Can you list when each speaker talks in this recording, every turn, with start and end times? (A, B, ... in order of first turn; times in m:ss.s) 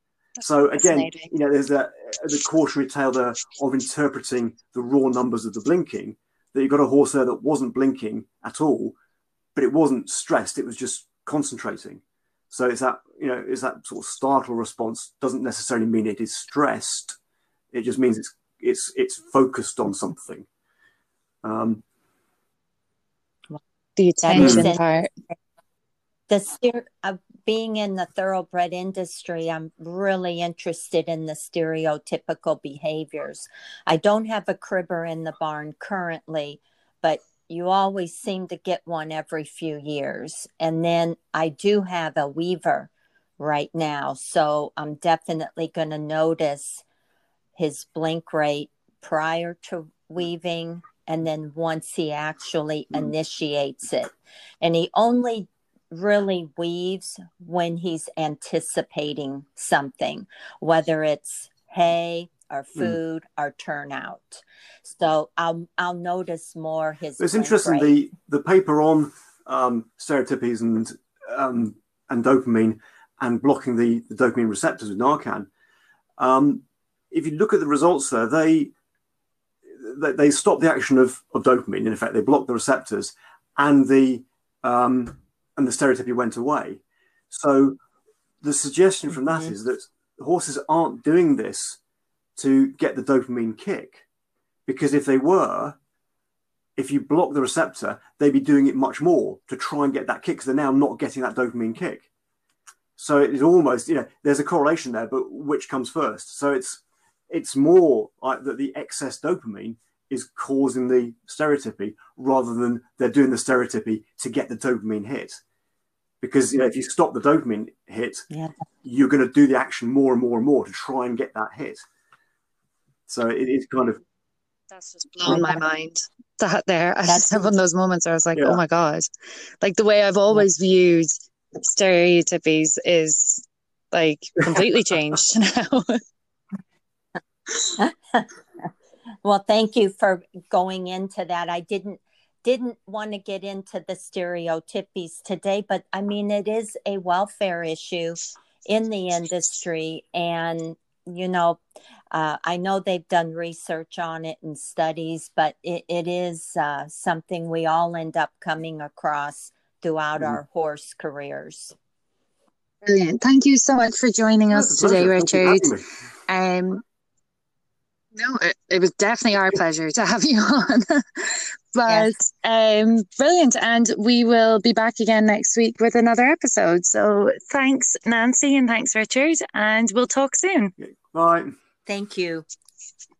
0:00.4-0:09.0 A
0:00.7-0:01.3 B
0:09.6-0:17.2 A
0:17.7-0:20.5 A
0:21.4-0:21.8 A
0:24.0-0:25.1 B
0:24.2-0:24.8 C
0:24.4-0:24.7 A
0:26.3-0:46.8 C
0:47.6-1:07.9 C
1:07.2-1:15.5 A
1:16.2-1:18.7 A
1:19.7-1:27.8 A
1:28.4-1:31.8 A
1:32.4-1:34.0 A
1:34.7-1:35.8 A
1:36.8-1:42.1 A
1:43.0-1:55.4 A
1:56.2-1:58.3 A
1:58.8-2:01.8 A
2:03.1-2:04.0 A
2:04.7-2:09.1 B
2:07.1-2:07.4 C
2:08.4-2:08.6 A
2:09.6-2:16.0 B
2:17.6-2:18.3 C
2:19.2-2:31.6 C
2:32.1-2:41.8 C
2:42.8-2:45.7 B
2:44.5-2:45.9 A
2:46.3-2:46.8 B
2:48.2-3:00.7 B
3:00.8-3:01.5 A
3:01.9-3:02.5 C